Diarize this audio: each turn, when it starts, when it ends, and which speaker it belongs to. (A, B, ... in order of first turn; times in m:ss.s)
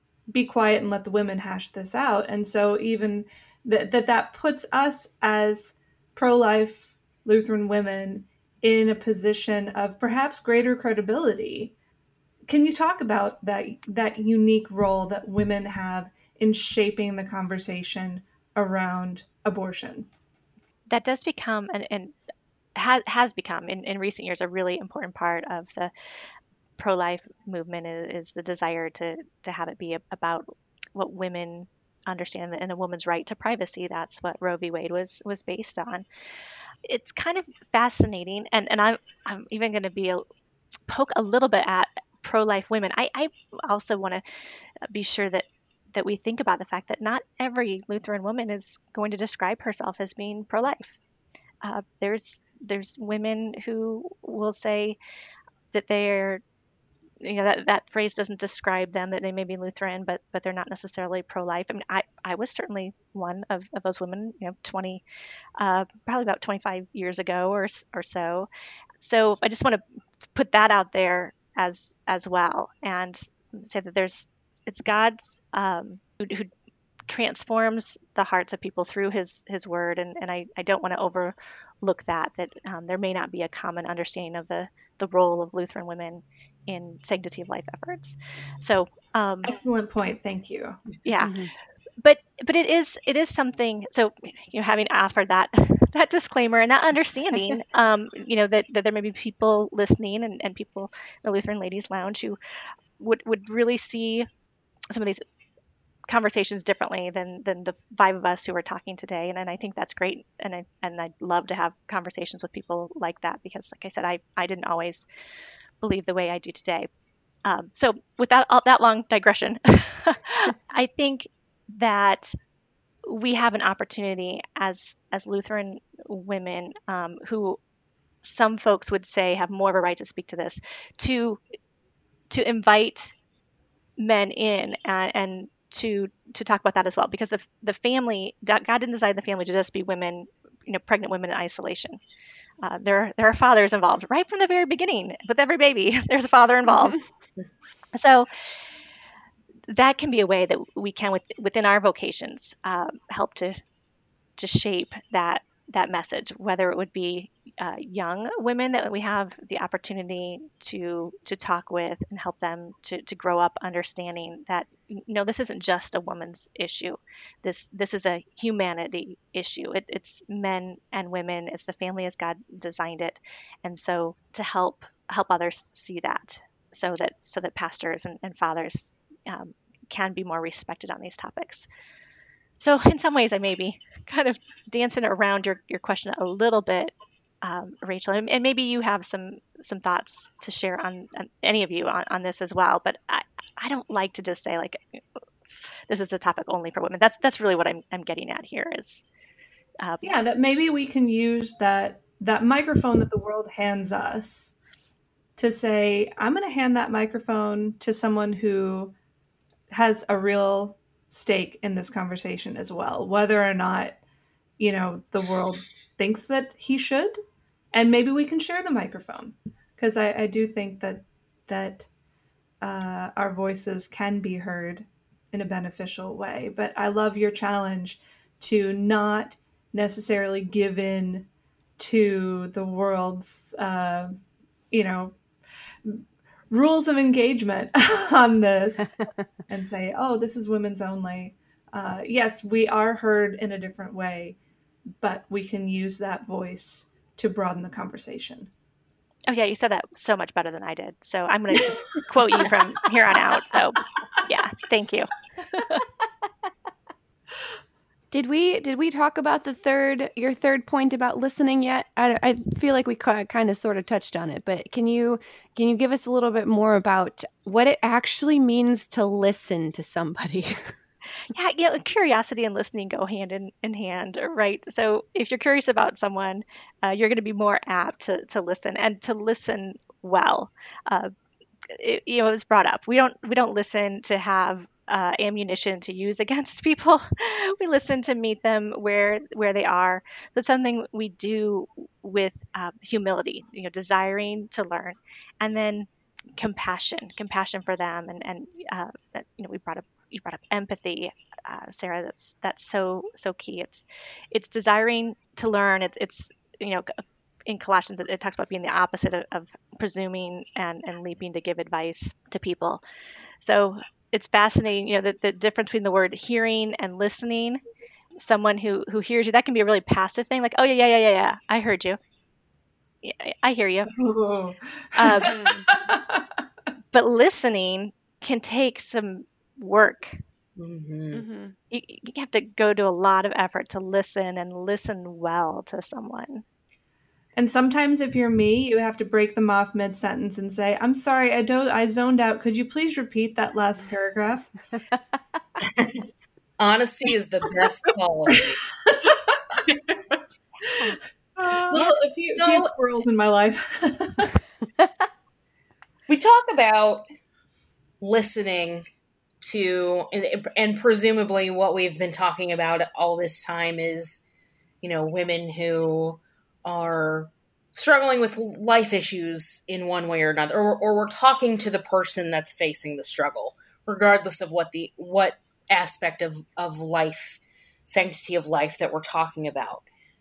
0:00.3-0:11.7 A
0:12.5-0:20.1 A
0:20.9-0:22.1 B
0:22.8-0:25.9 B
0:26.8-0:36.1 B
0:36.9-0:40.3 B
0:40.9-0:44.2 B
0:44.9-0:51.0 B
0:51.6-0:55.0 B
0:55.7-0:56.4 B
0:57.2-1:05.0 B
1:05.6-1:08.5 B
1:09.0-1:09.8 B
1:10.4-1:16.5 B
1:17.1-1:29.5 B
1:29.4-1:30.8 A
1:31.0-1:31.4 B
1:31.2-1:31.5 C
1:32.0-1:42.4 B
1:43.0-1:44.3 B
1:44.9-1:45.2 B
1:46.1-1:55.1 B
1:55.8-1:56.9 B
1:57.4-2:02.4 B
2:03.1-2:07.6 B
2:08.2-2:11.4 B
2:12.3-2:13.1 B
2:14.0-2:22.0 B
2:22.6-2:27.0 B
2:26.7-2:27.0 C
2:28.0-2:28.3 B
2:29.7-2:33.6 B
2:34.4-3:01.7 B
3:02.6-3:15.0 B
3:15.9-3:19.0 B
3:19.8-3:20.2 B
3:20.0-3:24.5 A
3:25.4-3:28.9 A
3:29.7-3:34.0 A
3:34.6-3:37.2 A
3:37.7-3:41.9 A
3:42.6-3:54.2 A
3:54.7-3:55.2 A
3:55.9-3:59.0 A
3:59.5-4:04.4 A
4:05.0-4:08.5 A
4:09.3-4:15.1 B
4:18.1-4:30.7 C
4:31.3-4:41.1 B
4:41.7-5:12.8 B
5:13.4-5:17.6 B
5:18.2-5:22.0 B
5:23.0-5:23.9 B
5:23.9-5:26.2 A
5:25.0-5:25.3 B
5:25.2-5:25.7 C
5:26.9-5:30.2 B
5:30.6-5:31.2 D
5:31.1-5:31.6 C
5:31.7-5:36.4 B
5:37.4-5:44.5 A
5:46.6-5:48.6 D
5:51.6-5:52.7 D
5:51.7-5:54.3 A
5:56.1-5:57.0 D
5:58.0-5:58.9 D
5:59.4-6:04.2 D
6:04.8-6:19.9 D